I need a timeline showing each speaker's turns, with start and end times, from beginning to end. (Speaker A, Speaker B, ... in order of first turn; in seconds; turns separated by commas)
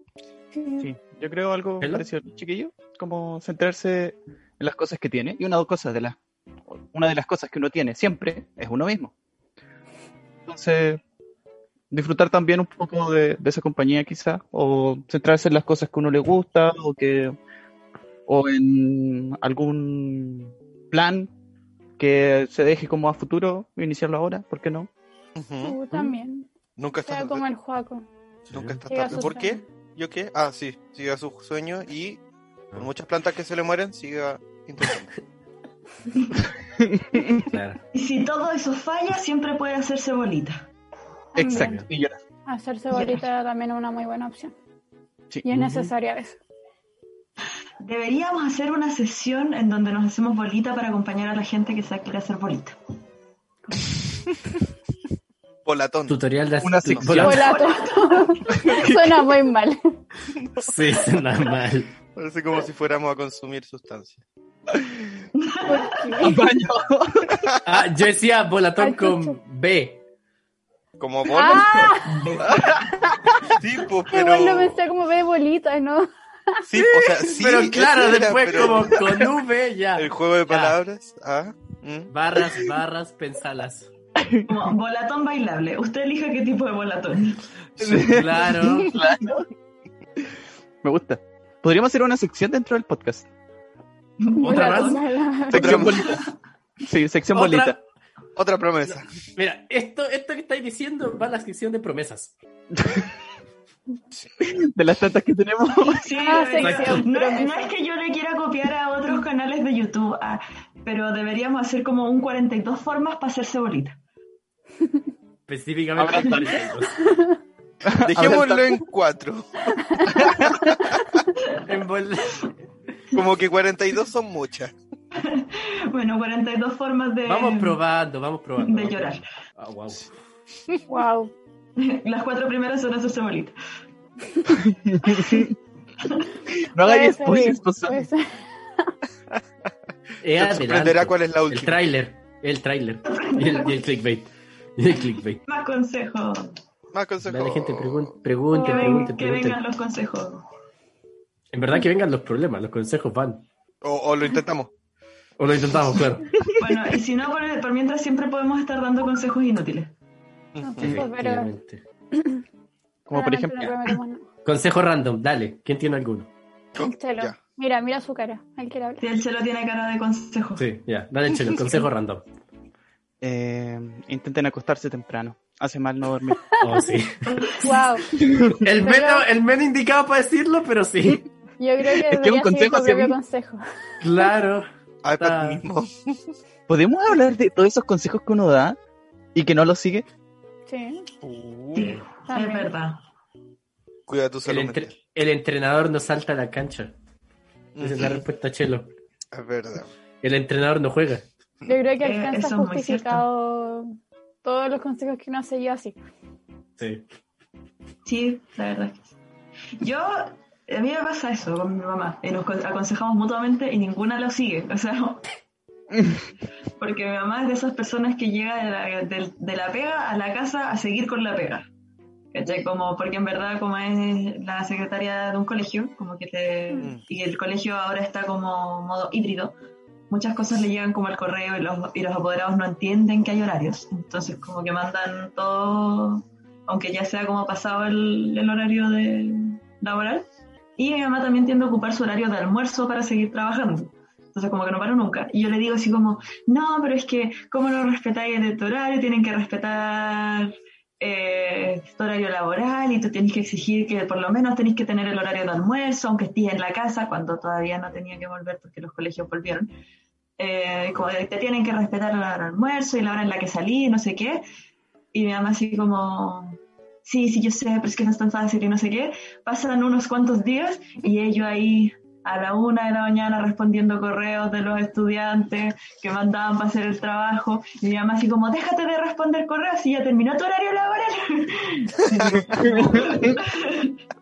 Speaker A: 0.5-0.8, Speaker B: 0.8-6.2, Speaker C: 1.8-2.1, Speaker B: 6.7-9.1, Speaker B: 10.4-11.0, Speaker B: 11.9-17.4, Speaker B: 18.3-21.3, Speaker B: 22.0-24.9, Speaker D: 25.4-25.8, Speaker A: 25.6-26.5, Speaker D: 26.8-27.4, Speaker A: 27.1-28.0, Speaker C: 28.5-28.8, Speaker D: 28.5-32.2, Speaker A: 28.9-29.6, Speaker D: 32.7-35.1, Speaker B: 36.7-37.5, Speaker C: 37.4-37.8, Speaker E: 37.9-40.7, Speaker A: 41.3-41.8, Speaker B: 41.3-42.2, Speaker C: 41.5-41.9, Speaker A: 42.5-44.5, Speaker E: 42.9-43.2, Speaker B: 45.3-45.8, Speaker A: 45.4-46.4, Speaker C: 45.5-45.9, Speaker E: 47.8-52.8, Speaker D: 55.6-56.2, Speaker C: 56.1-57.5, Speaker B: 56.6-57.5, Speaker D: 56.9-57.1, Speaker E: 57.2-58.5, Speaker A: 57.2-59.8, Speaker B: 58.5-59.2, Speaker D: 60.4-60.7, Speaker C: 60.6-61.9, Speaker D: 62.1-64.2, Speaker E: 65.3-66.2, Speaker A: 65.6-66.4, Speaker B: 66.2-67.5, Speaker D: 67.4-67.6, Speaker C: 67.6-70.0, Speaker A: 68.8-69.3, Speaker D: 71.0-71.7, Speaker A: 71.3-72.2, Speaker E: 71.5-73.1, Speaker D: 73.4-74.8, Speaker A: 74.1-76.7, Speaker D: 76.7-79.2, Speaker B: 76.8-77.2, Speaker C: 77.3-80.8, Speaker D: 80.0-82.1, Speaker C: 82.1-83.9, Speaker B: 84.2-84.6, Speaker E: 84.5-87.5, Speaker B: 87.8-89.5, Speaker C: 87.8-88.9, Speaker B: 90.8-93.3, Speaker E: 94.2-95.0, Speaker A: 94.3-95.8, Speaker C: 94.4-95.0, Speaker B: 95.5-96.2, Speaker D: 95.5-96.0, Speaker E: 96.0-96.3, Speaker B: 96.8-97.8, Speaker C: 97.3-97.8, Speaker D: 98.3-99.2, Speaker C: 98.9-102.3, Speaker B: 102.7-103.1, Speaker B: 104.4-106.4, Speaker E: 105.8-114.0, Speaker A: 106.1-107.7, Speaker C: 106.6-107.1, Speaker C: 115.5-117.0, Speaker B: 116.0-116.6, Speaker A: 117.0-117.4, Speaker B: 117.8-118.8, Speaker D: 118.0-121.0, Speaker B: 120.0-120.7, Speaker E: 121.4-121.6, Speaker C: 121.6-122.5, Speaker D: 123.1-124.7, Speaker E: 125.1-127.8, Speaker C: 127.2-130.1, Speaker E: 128.6-129.2, Speaker A: 130.9-131.3, Speaker E: 131.8-133.5, Speaker B: 134.5-135.5, Speaker E: 136.0-136.3, Speaker B: 136.7-138.1, Speaker A: 136.8-138.9, Speaker C: 140.2-145.4, Speaker D: 140.3-141.8, Speaker E: 143.1-143.8, Speaker E: 145.4-146.5, Speaker D: 146.9-148.1, Speaker C: 147.2-149.6, Speaker A: 148.5-149.1, Speaker E: 148.5-150.4, Speaker C: 151.5-153.4, Speaker D: 153.8-154.7, Speaker C: 155.4-156.3, Speaker B: 156.4-156.8, Speaker E: 156.6-159.9, Speaker D: 160.5-161.0, Speaker A: 160.6-161.5, Speaker C: 160.8-161.8, Speaker A: 162.1-162.4, Speaker B: 163.1-163.9, Speaker A: 163.1-164.2, Speaker C: 164.4-166.3, Speaker D: 166.7-167.4, Speaker A: 166.8-169.0, Speaker E: 169.0-170.6, Speaker C: 170.6-172.2, Speaker B: 173.2-176.4, Speaker C: 176.6-177.5, Speaker E: 177.3-177.8, Speaker A: 177.6-178.1, Speaker B: 178.2-178.6, Speaker C: 178.6-181.2, Speaker A: 178.8-179.3, Speaker A: 181.6-183.6, Speaker B: 181.8-183.2, Speaker C: 184.0-184.7, Speaker D: 185.0-186.3, Speaker C: 185.2-185.6, Speaker B: 186.7-188.8, Speaker B: 189.3-190.1, Speaker A: 190.7-191.1, Speaker D: 191.2-191.9, Speaker E: 191.7-193.0, Speaker C: 191.8-192.0, Speaker A: 192.3-192.7, Speaker D: 194.1-194.9, Speaker C: 194.4-196.9, Speaker D: 197.8-198.2, Speaker C: 197.8-198.9, Speaker D: 199.3-199.9, Speaker C: 200.2-201.3, Speaker A: 201.7-205.9, Speaker E: 202.0-203.2, Speaker C: 206.8-207.0, Speaker E: 208.0-209.1, Speaker E: 209.8-215.2, Speaker B: 215.9-216.2, Speaker E: 216.8-221.7, Speaker E: 222.3-229.5, Speaker E: 230.1-240.2, Speaker E: 240.8-259.7, Speaker E: 260.4-264.4, Speaker E: 265.1-284.0, Speaker B: 282.5-283.4